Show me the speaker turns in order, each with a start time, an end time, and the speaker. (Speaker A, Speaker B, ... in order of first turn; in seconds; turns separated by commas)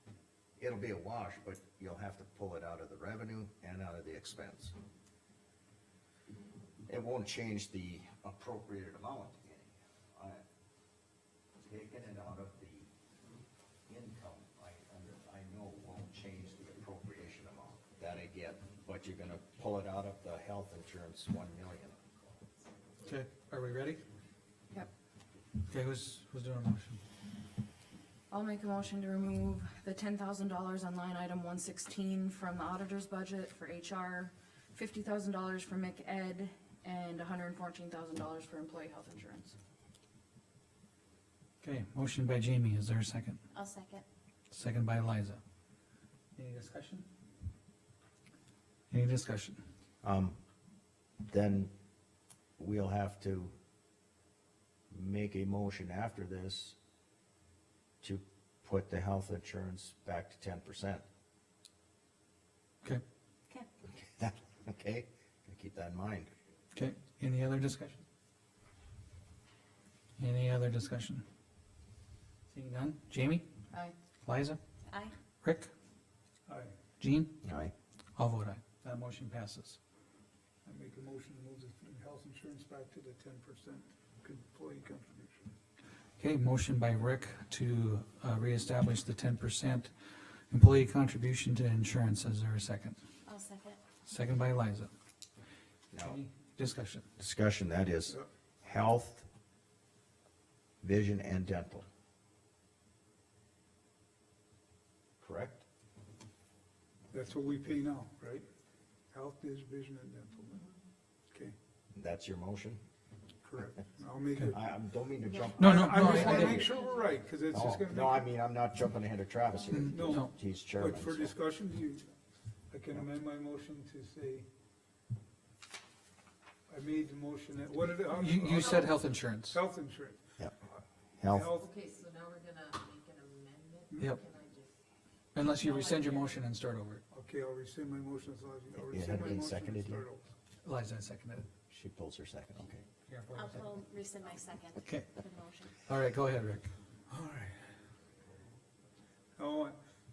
Speaker A: 0.6-4.7, Speaker A: 6.9-10.4, Speaker A: 11.6-12.9, Speaker A: 13.9-22.2, Speaker B: 23.0-24.0, Speaker B: 25.7-27.0, Speaker C: 28.3-39.5, Speaker B: 41.6-43.4, Speaker D: 43.5-44.0, Speaker B: 44.5-45.4, Speaker B: 46.3-47.0, Speaker B: 48.9-49.6, Speaker A: 50.0-50.4, Speaker A: 51.2-51.7, Speaker A: 52.6-53.5, Speaker A: 54.9-56.8, Speaker A: 58.0-61.0, Speaker A: 64.2-66.3, Speaker B: 66.7-68.0, Speaker B: 70.2-71.2, Speaker B: 72.5-73.4, Speaker B: 74.2-74.6, Speaker D: 74.8-75.1, Speaker B: 75.4-75.7, Speaker E: 76.5-76.7, Speaker B: 77.0-77.3, Speaker A: 77.4-77.7, Speaker B: 78.2-79.8, Speaker E: 80.6-85.5, Speaker B: 86.2-93.0, Speaker D: 93.2-93.8, Speaker B: 94.0-94.9, Speaker A: 95.9-96.2, Speaker B: 96.0-97.0, Speaker A: 97.2-99.2, Speaker A: 100.8-101.8, Speaker A: 105.2-105.6, Speaker E: 107.1-108.5, Speaker E: 109.1-110.7, Speaker A: 111.9-112.8, Speaker E: 113.4-114.7, Speaker A: 114.5-116.8, Speaker F: 115.2-117.2, Speaker B: 115.6-116.7, Speaker E: 115.6-118.3, Speaker A: 117.5-121.3, Speaker B: 119.7-120.3, Speaker E: 119.9-122.1, Speaker E: 122.7-124.5, Speaker E: 126.7-130.3, Speaker B: 128.1-129.6, Speaker F: 128.6-128.8, Speaker A: 131.2-131.5, Speaker E: 131.3-131.7, Speaker F: 131.5-134.7, Speaker B: 135.3-137.0, Speaker F: 135.5-136.4, Speaker E: 137.1-140.3, Speaker A: 138.8-140.1, Speaker F: 139.1-139.5, Speaker B: 140.6-141.5, Speaker A: 141.7-142.8, Speaker B: 143.1-143.8, Speaker D: 143.3-145.7, Speaker B: 144.8-145.1, Speaker B: 145.8-146.7, Speaker E: 147.1-147.7, Speaker E: 149.4-149.8